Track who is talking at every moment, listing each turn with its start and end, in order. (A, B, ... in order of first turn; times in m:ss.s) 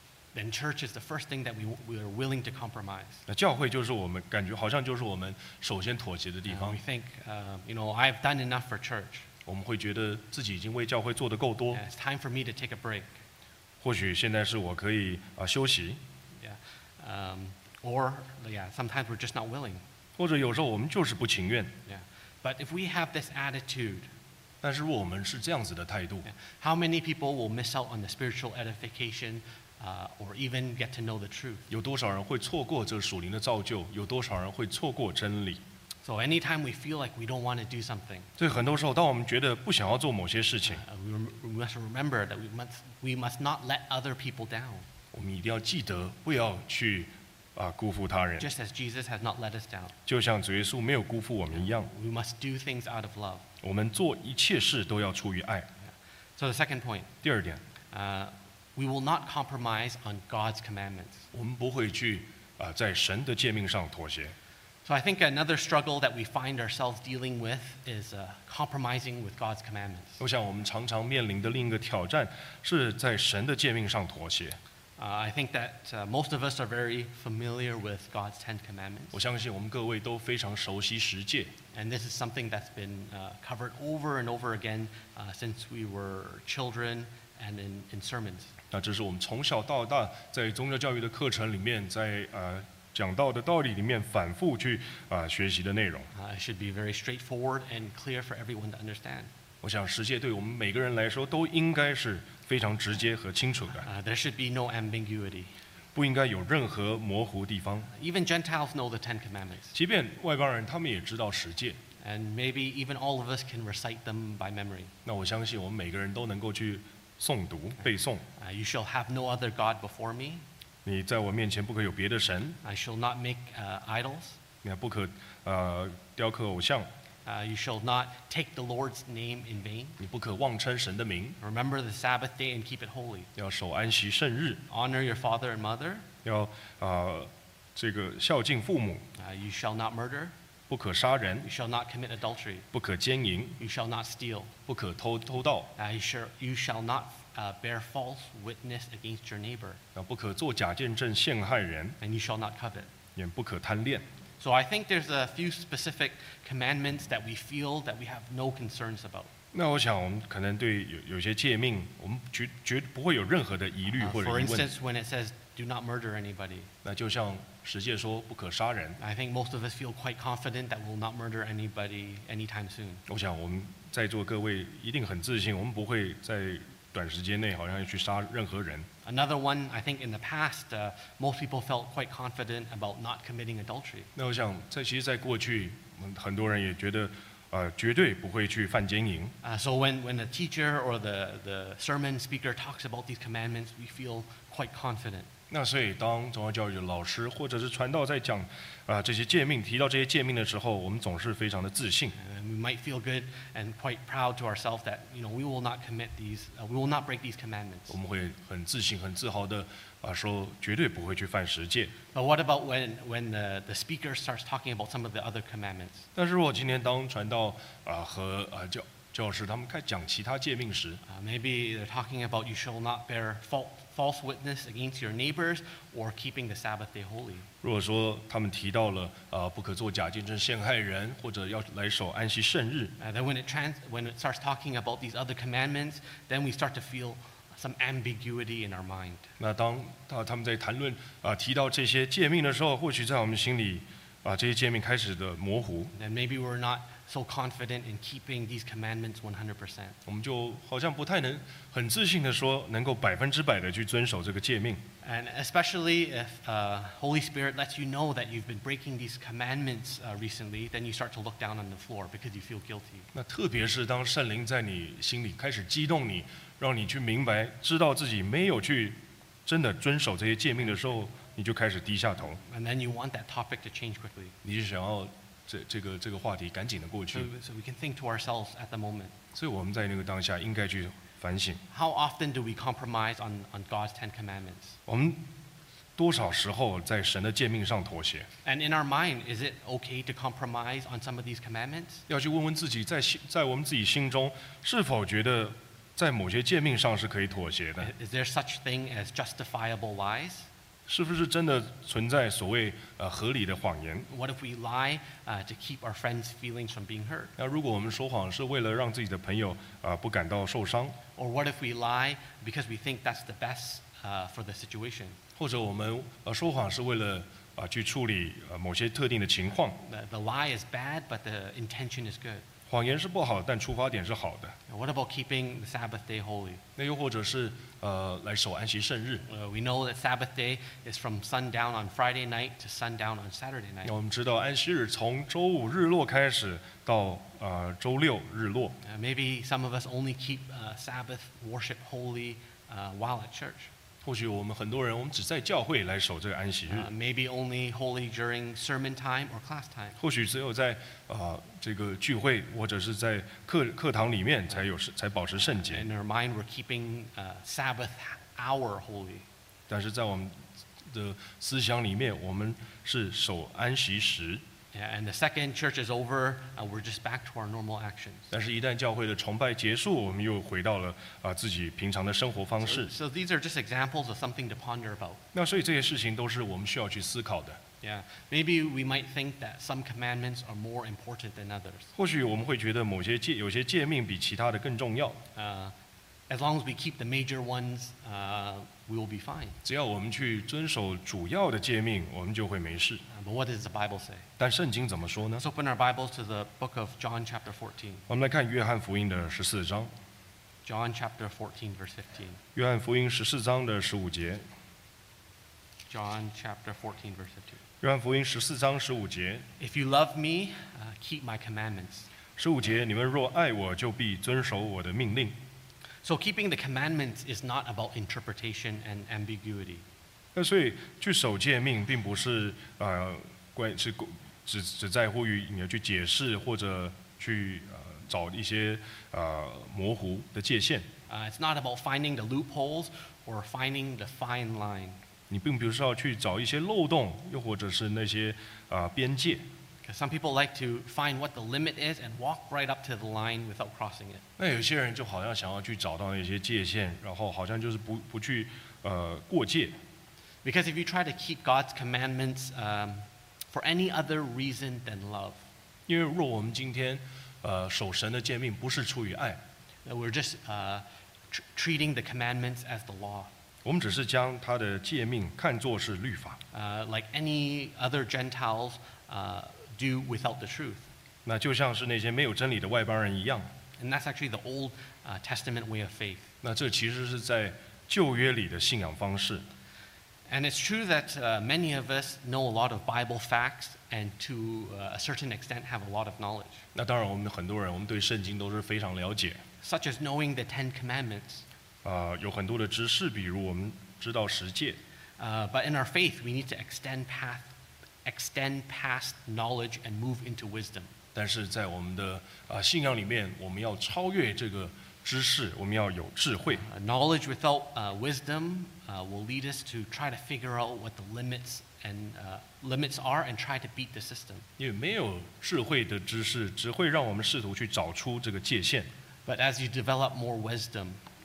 0:00.3-0:03.2 A
0:03.3-0:06.8 B
0:06.5-0:09.2 A
0:09.4-0:11.8 B
0:11.7-0:13.1 A
0:13.8-0:16.0 B
0:16.4-0:19.8 A
0:20.2-0:21.7 B
0:21.8-0:24.1 A
0:24.6-0:26.3 B
0:26.2-0:31.7 A
0:31.7-0:35.6 B
0:36.0-0:38.3 A
0:38.4-0:40.8 B
0:40.6-0:44.8 A
0:45.1-0:48.5 B
0:48.4-0:49.9 A
0:50.0-0:51.9 B
0:51.6-0:53.4 A
0:53.6-0:55.7 B
0:56.4-0:57.1 A
0:57.2-0:57.6 B
0:57.9-1:01.2 A
1:01.3-1:04.3 B
1:04.8-1:10.2 A
1:10.2-1:14.6 B
1:15.0-1:19.2 A
1:19.1-1:21.5 B
1:21.7-1:28.5 A
1:28.7-1:36.1 B
1:36.1-1:39.3 A
1:39.6-1:43.9 B
1:43.8-1:45.5 A
1:45.9-1:47.9 B
1:47.9-1:49.7 A
1:49.7-1:51.8 B
1:52.0-1:54.9 A
1:55.0-1:58.2 B
1:58.4-2:00.4 A
2:00.8-2:02.6 B
2:02.6-2:04.4 A
2:04.6-2:06.9 B
2:07.2-2:10.0 A
2:10.0-2:11.4 B
2:11.4-2:13.3 A
2:13.4-2:14.6 B
2:14.7-2:16.0 A
2:16.2-2:19.0 B
2:19.2-2:20.3 A
2:20.7-2:21.5 B
2:21.4-2:22.7 A
2:22.7-2:23.6 B
2:23.6-2:24.5 A
2:24.7-2:25.7 B
2:25.8-2:29.8 A
2:29.9-2:32.0 B
2:32.0-2:32.9 A
2:33.2-2:34.0 B
2:34.4-2:39.3 A
2:39.5-2:44.7 B
2:44.0-2:46.7 A
2:46.8-2:49.0 B
2:49.0-2:53.0 A
2:53.1-2:58.9 B
2:59.0-3:04.1 A
3:04.1-3:09.3 B
3:09.4-3:15.3 A
3:15.5-3:22.1 B
3:22.2-3:28.0 A
3:27.9-3:31.9 B
3:32.1-3:36.1 A
3:36.1-3:41.0 B
3:41.0-3:47.5 A
3:47.6-3:52.9 B
3:53.0-3:59.3 A
3:59.4-4:05.9 B
4:05.9-4:10.0 A
4:10.0-4:14.8 B
4:15.0-4:23.1 A
4:23.1-4:32.4 B
4:32.4-4:34.4 A
4:34.4-4:37.3 B
4:37.1-4:39.1 A
4:39.3-4:41.6 B
4:41.7-4:44.8 A
4:44.9-4:45.2 B
4:46.0-4:48.3 B
4:48.4-4:52.0 A
4:52.1-4:57.9 B
4:57.8-5:00.5 A
5:00.9-5:04.1 B
5:04.1-5:07.3 A
5:07.4-5:11.0 B
5:11.2-5:15.2 A
5:15.4-5:19.8 B
5:19.8-5:22.4 A
5:22.7-5:24.6 B
5:24.7-5:26.6 A
5:26.8-5:29.2 B
5:29.3-5:33.9 A
5:33.8-5:38.8 B
5:38.8-5:43.7 A
5:44.0-5:46.9 B
5:46.7-5:50.0 A
5:50.0-5:55.8 B
5:55.5-5:59.2 A
5:59.7-6:04.4 B
6:04.7-6:08.3 A
6:08.3-6:12.9 B
6:12.6-6:15.2 A
6:15.3-6:17.6 B
6:17.8-6:21.9 A
6:22.0-6:25.2 B
6:25.3-6:25.7 A
6:26.3-6:29.6 A
6:29.6-6:33.0 B
6:33.1-6:34.2 A
6:34.4-6:35.4 B
6:35.4-6:38.0 A
6:38.1-6:39.9 B
6:40.6-6:42.4 A
6:42.5-6:44.4 B
6:45.9-6:47.6 A
6:47.8-6:49.4 B
6:49.6-6:52.1 A
6:52.4-6:55.4 B
6:56.0-6:59.8 A
7:00.3-7:10.9 B
7:11.1-7:15.0 A
7:15.3-7:19.4 B
7:19.8-7:24.2 A
7:24.4-7:29.8 B
7:30.4-7:35.4 A
7:35.9-7:39.4 B
7:39.8-7:43.3 A
7:43.6-7:46.4 B
7:46.5-7:50.9 A
7:51.2-7:53.5 B
7:53.8-7:56.3 A
7:56.4-7:59.4 B
8:00.3-8:06.6 A
8:06.7-8:09.4 B
8:09.6-8:11.4 A
8:11.8-8:14.8 B
8:15.2-8:17.5 A
8:18.0-8:20.9 A
8:21.1-8:26.6 B
8:26.5-8:34.5 A
8:34.6-8:38.9 B
8:39.2-8:41.0 A